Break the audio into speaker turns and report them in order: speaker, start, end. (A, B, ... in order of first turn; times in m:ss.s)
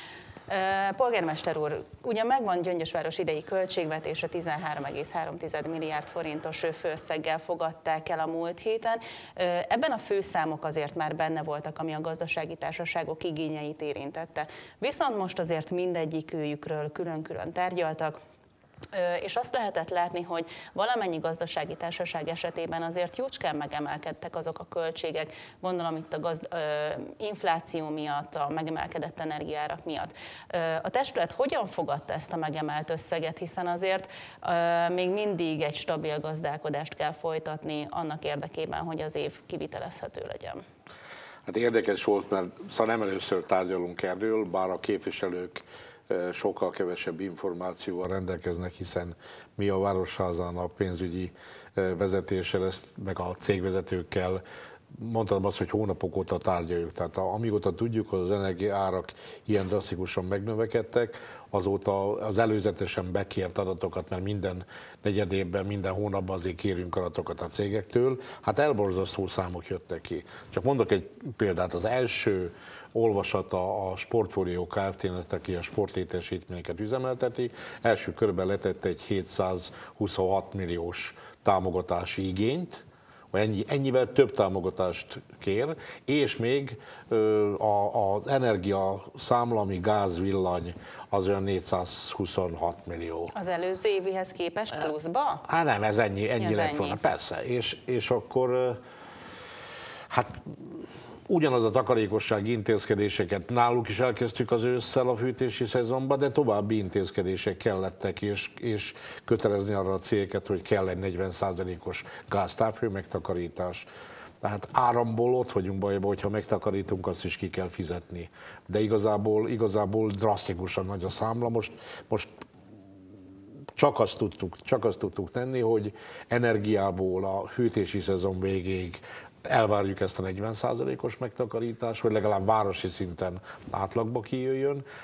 0:00.5-0:18.2 A
0:18.9-0:40.6 A
0:41.5-0:54.4 B
0:55.0-1:33.3 B
1:33.3-1:35.4 A
1:35.4-1:38.8 B
1:36.4-1:37.0 A
1:40.1-1:40.5 B
1:41.3-1:53.9 B
1:54.4-2:02.3 B
2:03.8-2:14.8 B